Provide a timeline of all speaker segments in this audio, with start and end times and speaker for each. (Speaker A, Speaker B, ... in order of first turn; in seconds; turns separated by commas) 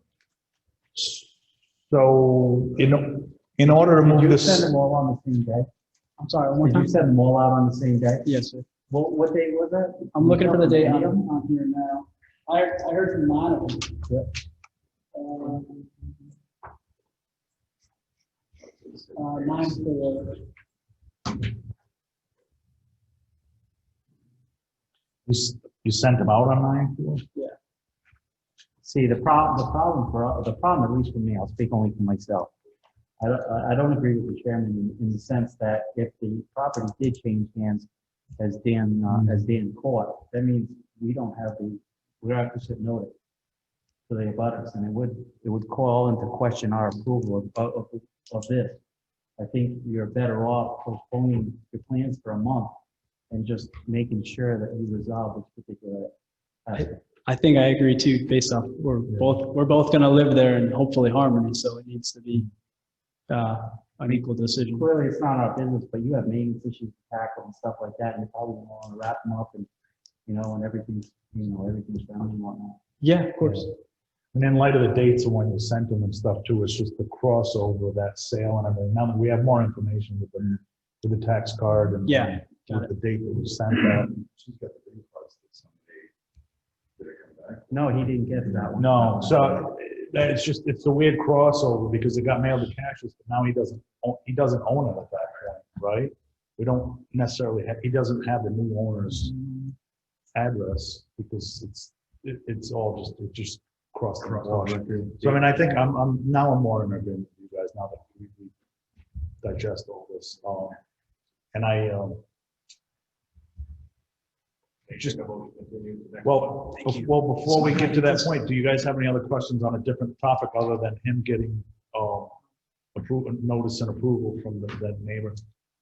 Speaker A: 1.0-1.3, Speaker A: 1.9-4.7, Speaker B: 3.6-5.7, Speaker C: 6.2-6.9, Speaker B: 6.6-8.3, Speaker C: 8.3-8.7, Speaker B: 8.9-11.2, Speaker C: 10.1-14.0, Speaker C: 15.2-15.9, Speaker C: 19.0-20.4, Speaker A: 25.3-27.2, Speaker B: 28.8-32.5, Speaker B: 33.2-37.9, Speaker B: 38.4-43.1, Speaker B: 44.1-48.8, Speaker B: 49.4-52.7, Speaker B: 53.3-56.1, Speaker B: 56.7-57.0, Speaker C: 57.3-62.5, Speaker C: 63.3-64.8, Speaker B: 64.7-69.7, Speaker B: 70.3-72.8, Speaker C: 73.0-73.7, Speaker A: 73.4-73.7, Speaker A: 74.3-84.2, Speaker C: 82.1-82.9, Speaker D: 84.3-86.1, Speaker D: 87.0-87.7, Speaker B: 87.7-89.6, Speaker A: 88.8-99.3, Speaker A: 100.3-108.5, Speaker A: 109.4-110.8, Speaker A: 111.5-112.2, Speaker D: 114.9-116.5, Speaker A: 116.2-122.3, Speaker A: 123.0-125.4